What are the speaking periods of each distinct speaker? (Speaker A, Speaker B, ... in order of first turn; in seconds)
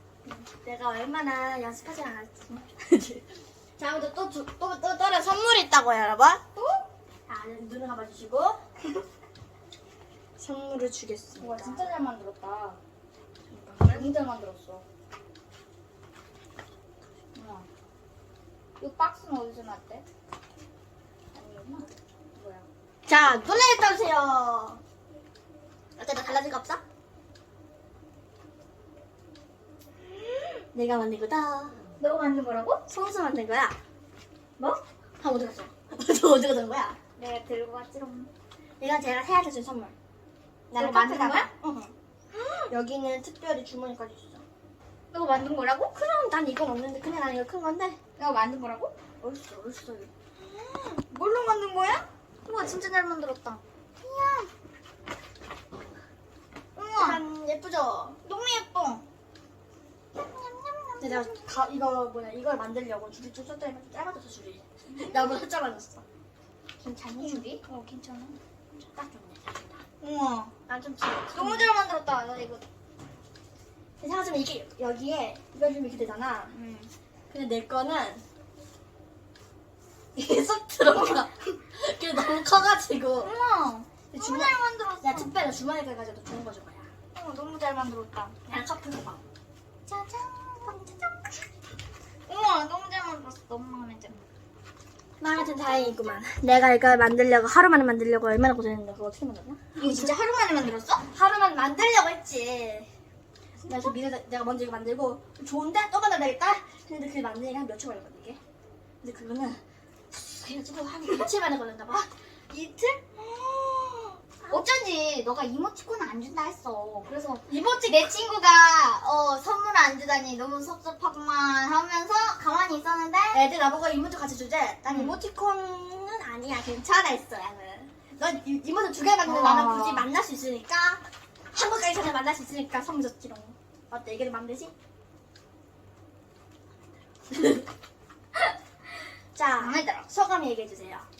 Speaker A: 0.2-3.3, 3.8-6.4, 7.3-8.6, 10.4-11.9, 13.5-14.1, 23.1-24.8, 26.0-26.8, 30.7-31.8, 32.9-33.8, 35.2-37.0, 38.8-39.9, 40.7-41.9, 42.7-44.4, 45.9-48.0, 49.2-50.1, 57.0-58.2, 61.0-66.0, 66.8-67.6, 68.7-69.8, 70.7-71.7, 74.0-76.5, 77.3-78.2, 80.2-83.3, 84.1-86.9, 88.5-89.2, 95.2-100.1, 101.1-102.9, 103.7-108.4, 109.0-109.6, 110.1-112.1, 117.5-118.1, 123.3-131.0, 131.5-134.7, 137.3-137.6, 139.3-141.1
Speaker B: 6.5-6.8, 11.4-12.8, 13.9-14.8, 17.3-17.7, 18.8-20.0, 21.3-22.7, 32.0-32.8, 37.2-38.3, 40.7-41.5, 42.3-42.7, 45.1-46.0, 48.2-48.9, 50.4-54.5, 56.7-57.2, 58.2-59.0, 60.1-61.6, 65.0-65.4, 67.2-68.4, 70.0-70.5, 71.3-72.6, 76.5-76.9, 83.2-85.3, 87.1-88.6, 89.8-91.5, 92.3-94.2, 95.3-96.2, 99.8-101.0, 103.6-103.9, 112.5-123.4, 124.9-125.2, 129.2-130.1, 139.6-140.1